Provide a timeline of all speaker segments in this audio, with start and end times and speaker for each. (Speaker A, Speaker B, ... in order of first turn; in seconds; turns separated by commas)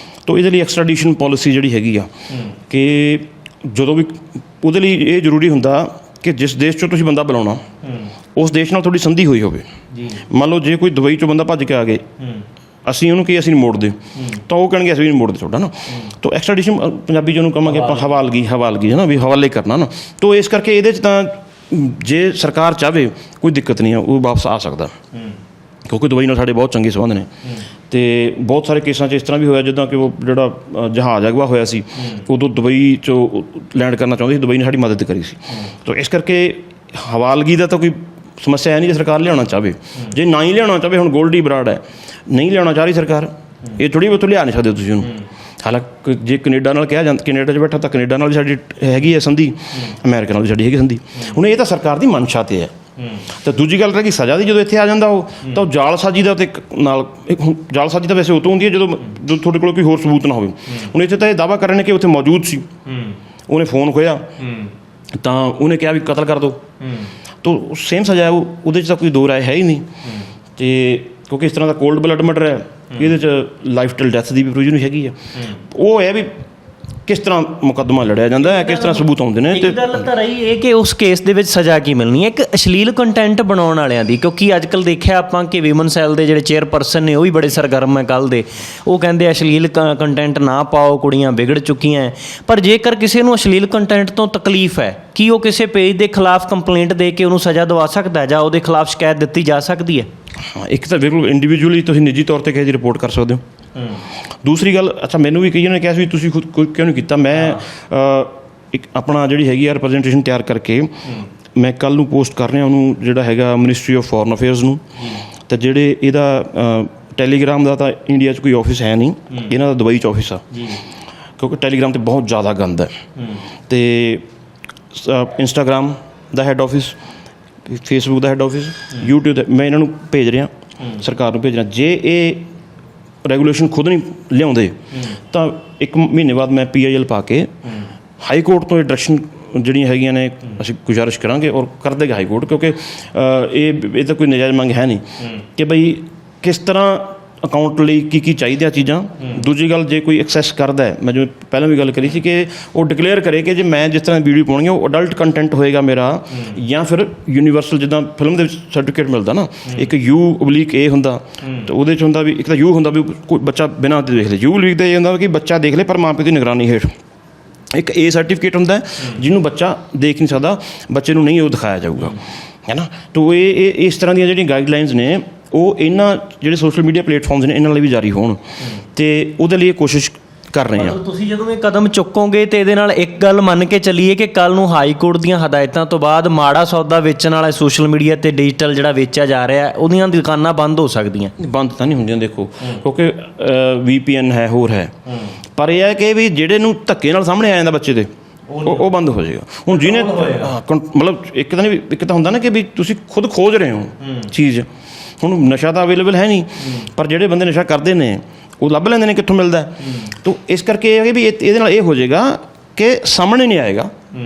Speaker A: 0.3-7.7, Speaker A: 8.4-12.1, Speaker A: 12.8-24.9, Speaker A: 25.9-27.3, Speaker A: 27.9-62.7, Speaker A: 63.5-64.5, Speaker A: 65.2-66.6, Speaker A: 67.4-69.9, Speaker A: 70.6-76.3, Speaker A: 77.1-80.0, Speaker B: 78.4-100.1, Speaker A: 100.5-103.4, Speaker A: 104.4-120.8, Speaker A: 121.4-123.0, Speaker A: 123.7-124.2, Speaker A: 124.9-127.0, Speaker A: 127.7-132.5, Speaker A: 133.2-137.7, Speaker A: 138.2-166.9, Speaker A: 167.7-181.0, Speaker B: 180.8-191.3, Speaker A: 191.4-194.9, Speaker A: 195.6-198.1, Speaker B: 198.5-198.9, Speaker A: 198.6-204.7, Speaker B: 199.7-200.5, Speaker A: 205.2-213.9